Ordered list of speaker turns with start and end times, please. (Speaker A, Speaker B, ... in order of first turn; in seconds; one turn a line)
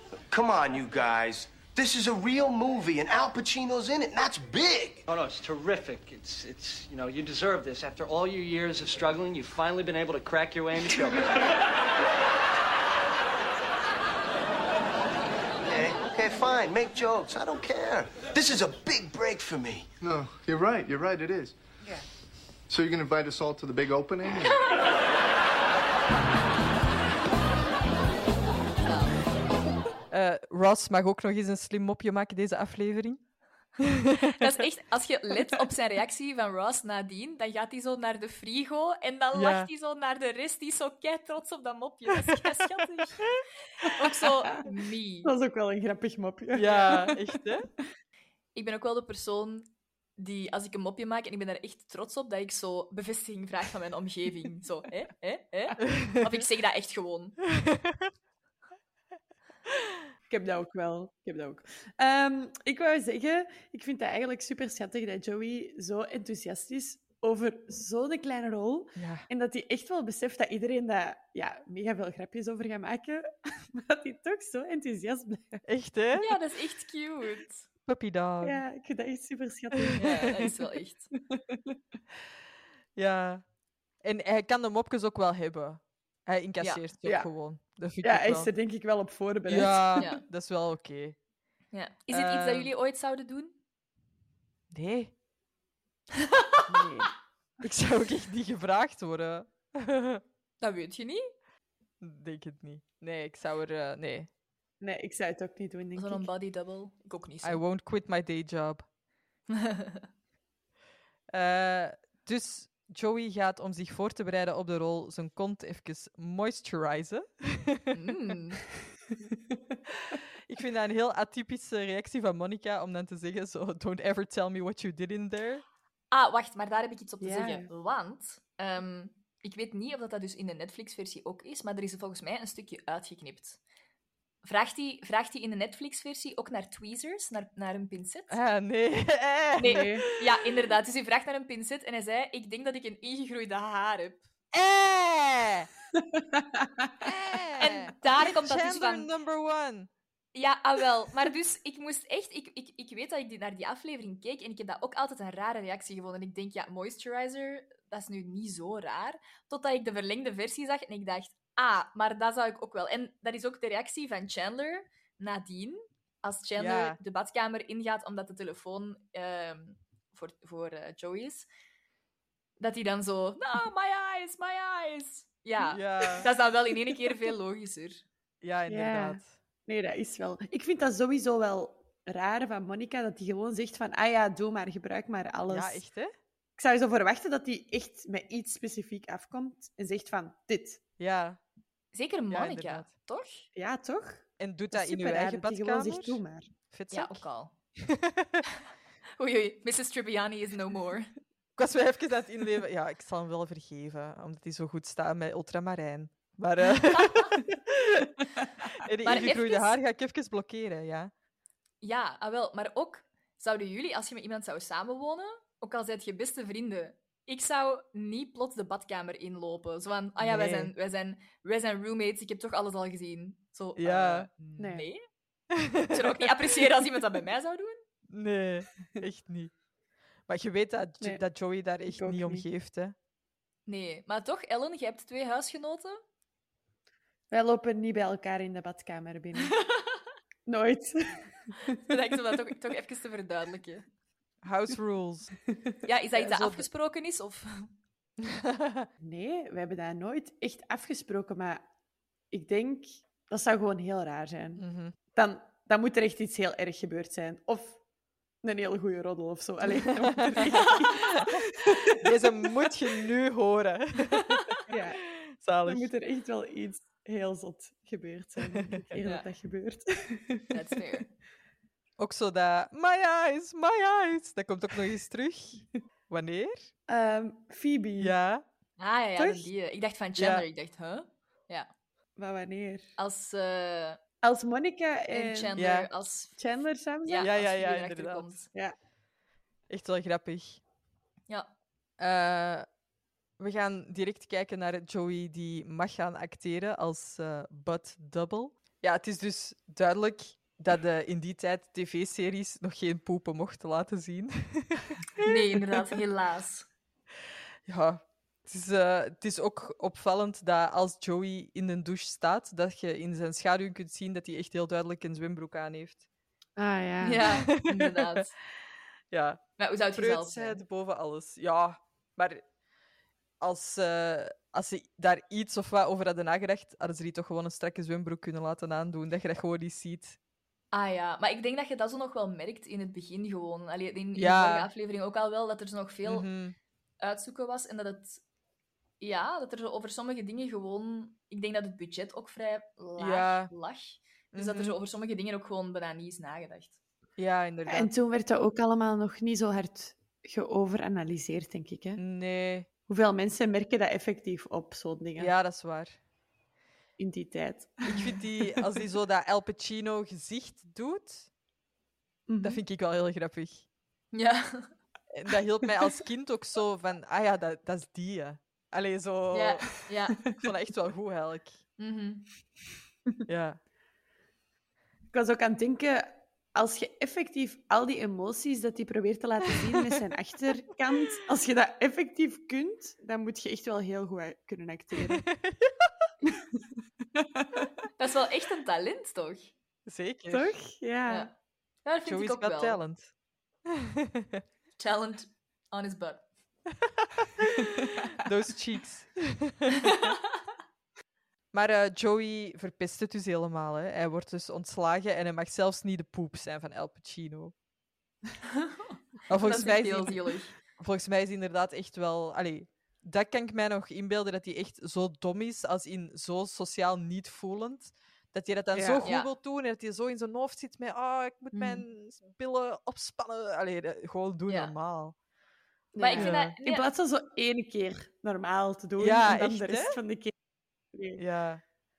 Speaker A: 0.3-5.0
Speaker B: 5.1-11.6
Speaker A: 15.6-19.9
Speaker C: 20.0-21.6
Speaker C: 22.7-24.6
Speaker D: 28.8-29.3
Speaker E: 30.1-33.2
Speaker E: 33.8-34.3
Speaker D: 34.4-45.3
Speaker E: 39.3-39.7
Speaker F: 43.9-44.7
Speaker F: 45.2-47.4
Speaker E: 46.5-47.7
Speaker D: 48.5-57.4
Speaker E: 55.8-56.2
Speaker E: 57.7-58.0
Speaker F: 60.3-75.6
Speaker E: 69.0-69.3
Speaker E: 75.6-76.4
Speaker D: 76.2-77.7
Speaker E: 77.9-78.6
Speaker F: 78.4-80.6
Speaker E: 79.8-80.1
Speaker D: 80.0-81.1
Speaker F: 81.3-81.8
Speaker E: 83.0-83.4
Speaker E: 84.0-88.5
Speaker F: 87.0-87.3
Speaker F: 88.0-90.0
Speaker E: 89.5-91.2
Speaker D: 90.0-90.2
Speaker D: 91.7-93.5
Speaker E: 92.1-92.7
Speaker E: 94.7-95.1
Speaker D: 96.1-96.6
Speaker F: 96.7-97.1
Speaker E: 97.6-100.2
Speaker D: 100.6-101.3
Speaker E: 102.0-104.3
Speaker F: 104.8-106.3
Speaker D: 106.0-107.6
Speaker E: 107.4-108.8
Speaker D: 109.5-110.1
Speaker E: 111.3-118.0
Speaker D: 117.9-118.6
Speaker E: 120.0-125.6
Speaker D: 126.1-133.6
Speaker F: 127.2-127.7
Speaker D: 134.4-138.4
Speaker E: 138.3-140.4
Speaker D: 139.6-144.3
Speaker F: 139.6-140.1
Speaker E: 144.5-145.7
Speaker F: 146.0-146.9
Speaker E: 147.0-149.9
Speaker D: 147.6-149.1
Speaker D: 150.3-171.5
Speaker E: 166.6-167.0
Speaker D: 172.6-178.0
Speaker E: 175.7-176.3
Speaker E: 178.4-179.3
Speaker F: 178.7-185.8
Speaker E: 185.5-186.1
Speaker F: 186.6-190.8
Speaker E: 191.0-191.4
Speaker D: 191.9-193.5
Speaker E: 192.3-192.9
Speaker F: 193.5-196.5
Speaker E: 194.4-196.2
Speaker E: 196.7-197.2
Speaker D: 196.9-197.5
Speaker E: 197.8-198.4
Speaker D: 199.2-201.1
Speaker E: 201.6-211.1
Speaker D: 207.0-207.3
Speaker D: 209.0-209.8
Speaker D: 211.8-225.0
Speaker E: 220.2-220.7
Speaker E: 223.8-224.3
Speaker F: 224.6-224.9
Speaker E: 225.5-226.3
Speaker D: 225.9-227.8
Speaker E: 228.1-229.5
Speaker E: 230.3-232.9
Speaker F: 231.9-232.4
Speaker D: 233.7-236.0
Speaker F: 237.3-239.6
Speaker D: 239.4-240.1
Speaker F: 240.4-241.8
Speaker D: 241.7-243.8
Speaker E: 244.4-245.3
Speaker D: 245.9-247.7
Speaker E: 246.2-246.6
Speaker E: 248.3-248.9
Speaker F: 249.0-251.6
Speaker F: 252.3-257.8
Speaker E: 254.6-254.9
Speaker F: 258.4-262.0
Speaker E: 259.9-261.3
Speaker E: 261.9-264.4
Speaker F: 264.7-265.0
Speaker E: 265.2-265.9
Speaker F: 265.6-270.6
Speaker E: 268.5-268.8
Speaker D: 270.5-271.1
Speaker E: 272.0-276.7
Speaker F: 276.9-278.1
Speaker E: 278.0-278.4
Speaker D: 278.8-281.7
Speaker F: 279.1-279.5
Speaker E: 280.2-280.4
Speaker F: 282.2-282.9
Speaker D: 283.0-284.0
Speaker F: 284.2-285.6
Speaker D: 285.1-286.4
Speaker E: 285.6-285.9
Speaker F: 286.4-287.3
Speaker D: 287.1-288.5
Speaker E: 287.2-288.4
Speaker E: 289.7-290.6
Speaker E: 292.0-292.6
Speaker E: 293.4-305.9
Speaker D: 305.2-306.7
Speaker E: 307.7-316.0
Speaker F: 316.6-317.3
Speaker D: 317.0-318.3
Speaker E: 317.2-318.2
Speaker E: 319.1-319.4
Speaker D: 319.6-320.6
Speaker E: 319.9-322.4
Speaker E: 323.4-330.2
Speaker D: 330.7-336.3
Speaker E: 334.1-334.7
Speaker E: 336.1-336.6
Speaker D: 337.0-338.2
Speaker D: 339.0-346.8
Speaker E: 343.0-343.5
Speaker E: 344.3-344.7
Speaker E: 347.2-347.9
Speaker F: 347.7-352.0
Speaker E: 352.0-352.7
Speaker F: 352.9-355.3
Speaker E: 355.2-356.0
Speaker F: 357.0-358.6
Speaker E: 357.9-361.3
Speaker F: 362.3-362.6
Speaker E: 362.4-363.6
Speaker D: 364.1-364.7
Speaker E: 365.1-369.7
Speaker D: 369.3-370.3
Speaker E: 370.4-371.6
Speaker D: 371.8-372.3
Speaker E: 373.3-373.6
Speaker F: 375.1-385.2
Speaker E: 385.0-385.9
Speaker F: 386.3-387.6
Speaker D: 388.0-389.5
Speaker E: 389.9-390.5
Speaker F: 390.3-391.3
Speaker D: 391.1-391.3
Speaker D: 391.8-392.8
Speaker E: 392.1-393.1
Speaker E: 393.8-394.4
Speaker D: 394.8-396.2
Speaker E: 397.1-400.1
Speaker E: 401.5-407.5
Speaker D: 408.6-410.6
Speaker E: 409.3-410.1
Speaker E: 410.8-425.1
Speaker F: 418.7-419.1
Speaker D: 419.0-419.3
Speaker D: 421.5-421.8
Speaker F: 425.9-430.3
Speaker D: 426.0-426.9
Speaker E: 426.1-426.5
Speaker E: 429.0-430.0
Speaker F: 430.9-431.2
Speaker E: 431.1-431.6